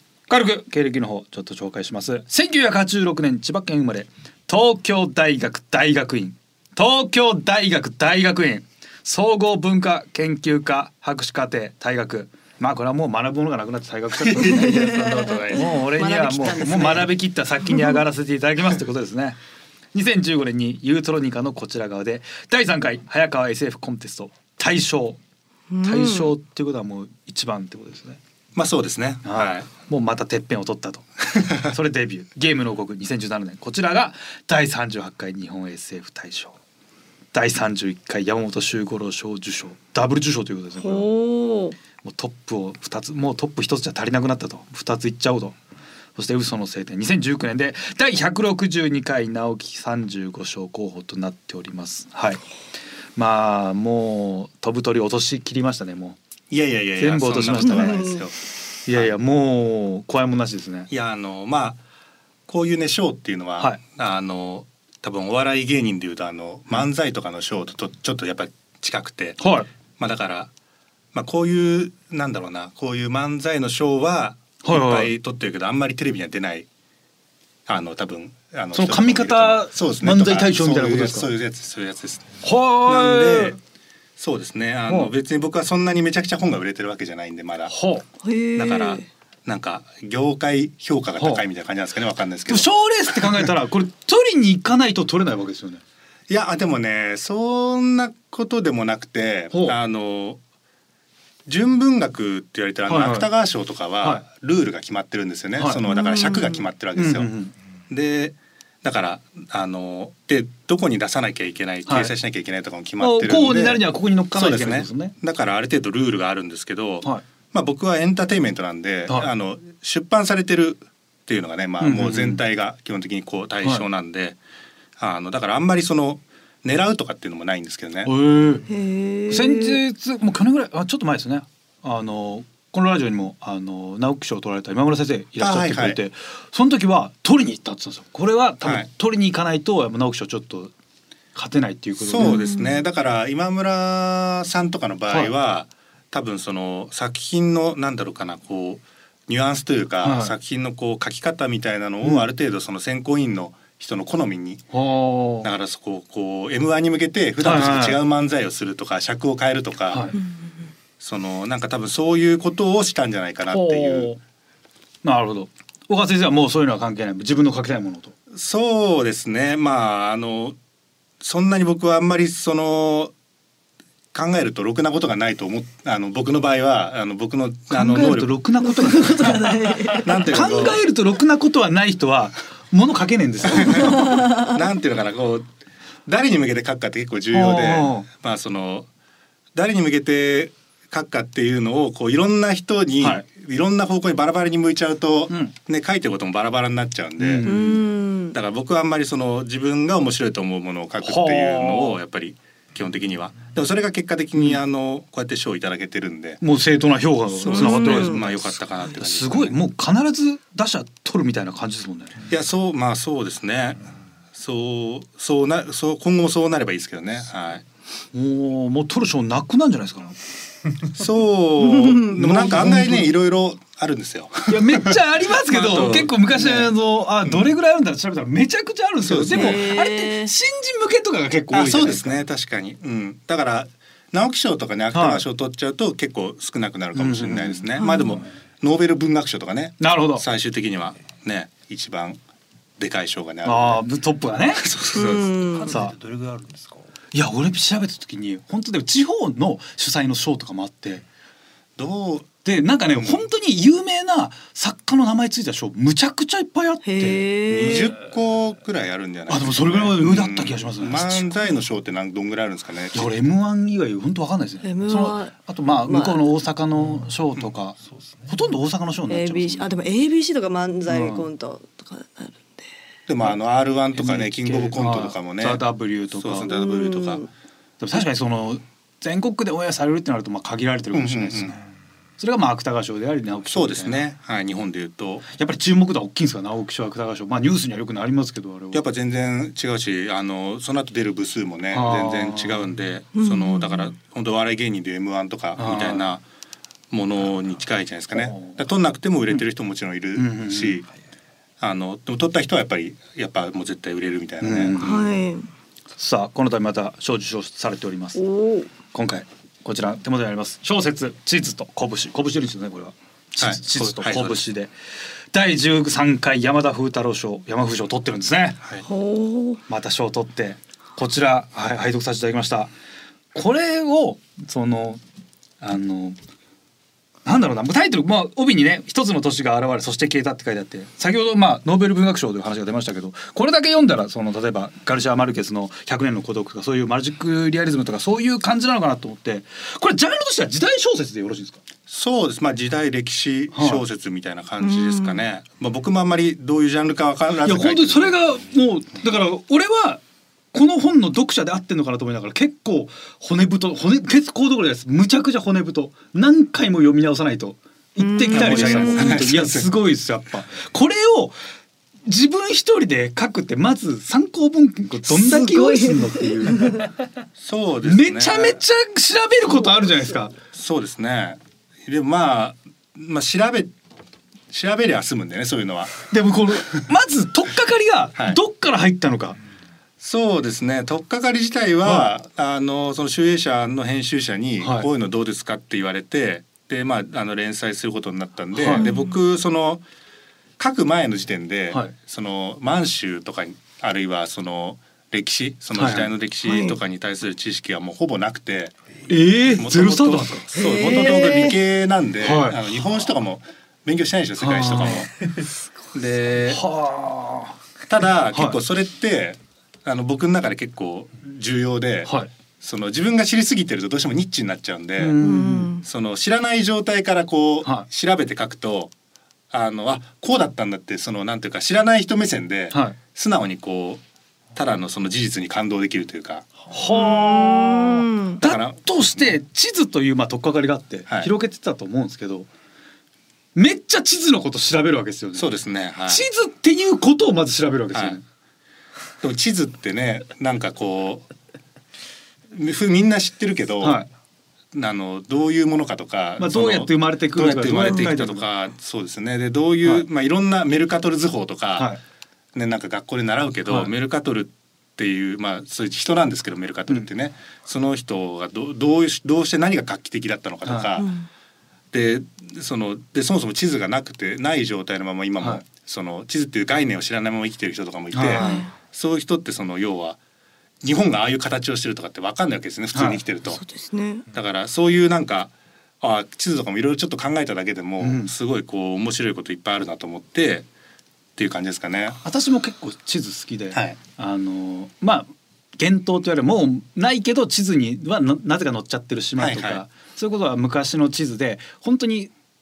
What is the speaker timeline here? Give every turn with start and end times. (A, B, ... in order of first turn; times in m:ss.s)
0:00.3-0:19.4 A
0:14.2-0:15.7 B
0:14.5-0:17.2 C
0:19.9-0:25.2 A
0:25.7-0:26.3 C
0:25.8-0:28.2 A
0:28.6-0:29.7 B
0:29.2-0:36.6 A
0:37.3-0:41.1 A
0:40.8-0:41.8 C
0:42.0-0:45.6 A
0:46.2-0:52.4 A
0:53.2-0:56.2 A
0:56.5-0:58.4 B
0:57.0-0:58.2 A
0:57.6-0:58.2 C
0:58.9-1:00.9 A
1:00.9-1:01.8 B
1:02.5-1:09.4 B
1:09.4-1:09.7 A
1:10.0-1:10.5 B
1:11.1-1:16.7 B
1:14.6-1:15.1 A
1:17.7-1:23.6 B
1:18.7-1:21.3 A
1:22.4-1:23.6 A
1:24.2-1:27.7 B
1:24.9-1:25.1 A
1:27.7-1:28.0 A
1:28.2-1:29.1 C
1:28.6-1:32.7 B
1:31.2-1:31.4 A
1:32.5-1:35.8 A
1:33.2-1:33.4 B
1:36.3-1:40.4 B
1:39.5-1:39.8 A
1:41.5-1:47.3 B
1:42.9-1:43.3 A
1:45.6-1:45.8 A
1:45.9-1:46.6 C
1:47.0-1:47.5 A
1:47.9-2:04.4 B
1:51.9-1:52.1 A
1:53.0-1:55.2 A
2:01.8-2:02.4 A
2:05.0-2:08.1 B
2:08.0-2:08.6 A
2:08.7-2:09.8 C
2:09.3-2:20.7 A
2:15.4-2:16.0 B
2:21.3-2:22.4 A
2:22.0-2:34.6 B
2:22.2-2:22.8 C
2:30.0-2:30.3 A
2:34.7-2:35.5 A
2:35.4-2:40.1 B
2:37.4-2:38.0 A
2:39.9-2:40.2 A
2:41.0-2:44.1 B
2:43.5-2:44.2 A
2:45.0-2:48.1 A
2:48.3-2:50.6 B
2:51.2-2:53.1 B
2:54.1-2:58.3 B
2:57.7-3:04.3 A
2:58.6-3:00.3 C
2:59.9-3:00.8 B
3:03.5-3:05.5 B
3:04.0-3:04.4 C
3:06.1-3:08.9 B
3:07.3-3:08.1 A
3:09.6-3:17.5 B
3:13.0-3:13.2 A
3:17.2-3:17.8 A
3:17.4-3:18.4 C
3:18.3-3:26.4 B
3:21.0-3:22.0 A
3:26.4-3:32.2 A
3:27.3-3:29.6 B
3:27.5-3:28.2 C
3:32.3-3:37.6 B
3:38.1-3:40.2 A
3:40.9-3:46.7 B
3:41.6-3:42.1 C
3:42.1-3:43.1 A
3:44.5-3:52.2 A
3:49.0-3:49.7 B
3:49.3-3:50.3 C
3:51.5-4:02.2 B
3:54.9-3:55.2 A
3:57.0-3:57.6 A
3:57.8-3:58.2 C
3:59.8-4:00.2 A
4:02.8-4:03.9 B
4:03.4-4:04.7 A
4:04.6-4:05.3 B
4:04.9-4:05.7 C
4:05.2-4:06.9 D
4:05.7-4:06.0 A
4:07.1-4:11.0 A
4:11.8-4:12.3 B
4:12.4-4:17.3 A
4:13.0-4:13.2 B
4:16.8-4:18.0 C
4:17.5-4:23.1 B
4:19.3-4:21.3 A
4:22.9-4:29.7 A
4:24.6-4:25.3 C
4:25.8-4:26.2 C
4:27.9-4:28.3 D
4:29.1-4:32.7 C
4:30.9-4:31.3 A
4:33.1-4:37.3 B
4:33.9-4:36.5 A
4:36.5-4:37.3 C
4:37.8-4:41.6 A
4:40.9-4:41.6 B
4:42.2-4:44.0 A
4:43.5-4:45.3 B
4:45.3-4:48.8 A
4:48.7-4:56.2 B
4:51.7-4:52.7 A
4:53.2-4:53.9 C
4:55.6-4:56.2 A
4:56.9-5:00.9 B
4:58.2-4:58.4 A
5:00.2-5:00.8 A
5:01.6-5:05.0 B
5:04.4-5:05.2 A
5:04.8-5:05.5 C
5:06.0-5:08.2 A
5:08.2-5:08.7 C
5:08.9-5:14.7 A
5:13.4-5:14.4 B
5:15.3-5:18.6 A
5:18.8-5:19.6 C
5:19.7-5:22.7 A
5:23.3-5:25.0 A
5:25.6-5:26.2 A
5:27.2-5:41.6 A
5:41.9-5:48.2 B
5:43.5-5:43.8 A
5:44.6-5:45.2 C
5:47.4-5:50.0 A
5:50.5-6:01.4 A
5:58.0-5:59.2 C
5:58.3-5:59.7 B
6:02.1-6:06.9 A
6:05.1-6:06.9 C
6:07.4-6:08.6 B
6:07.8-6:10.4 A
6:10.5-6:13.7 B
6:14.5-6:16.0 B
6:16.1-6:19.4 A
6:20.0-6:29.8 B
6:21.8-6:22.1 A
6:24.6-6:24.9 A
6:28.5-6:28.9 A
6:28.7-6:29.2 C
6:30.6-6:38.7 B
6:35.7-6:36.1 A
6:36.4-6:36.8 C
6:39.1-6:41.2 A
6:39.5-6:45.1 B
6:40.6-6:41.6 C
6:42.2-6:42.6 A
6:44.4-6:45.1 A
6:45.9-6:46.6 B
6:46.5-6:47.6 A
6:47.9-6:55.2 B
6:48.3-6:48.6 A
6:55.0-6:55.7 A
6:55.2-6:55.8 C
6:55.8-6:58.9 B
6:59.5-7:04.0 B
7:02.7-7:03.0 A
7:04.6-7:06.5 B
7:06.7-7:12.5 A
7:06.9-7:08.4 C
7:08.4-7:09.3 B
7:13.6-7:15.5 A
7:15.4-7:16.2 B
7:16.1-7:18.2 A
7:17.9-7:18.2 B
7:19.2-7:21.3 B
7:22.5-7:24.0 B
7:23.8-7:24.1 A
7:24.7-7:31.9 B
7:26.4-7:28.5 A
7:27.8-7:28.1 C
7:32.5-7:41.1 B
7:33.7-7:33.9 A
7:40.6-7:41.0 A
7:41.0-7:41.3 C
7:41.9-7:50.2 B
7:45.4-7:45.6 A
7:48.1-7:48.6 A
7:48.3-7:48.7 C
7:50.8-7:53.6 B
7:52.9-7:53.2 A
7:53.5-7:54.3 C
7:54.3-8:00.7 B
7:58.0-7:58.3 A
8:01.4-8:02.2 B
8:02.2-8:12.3 A
8:03.7-8:04.0 B
8:09.4-8:09.8 B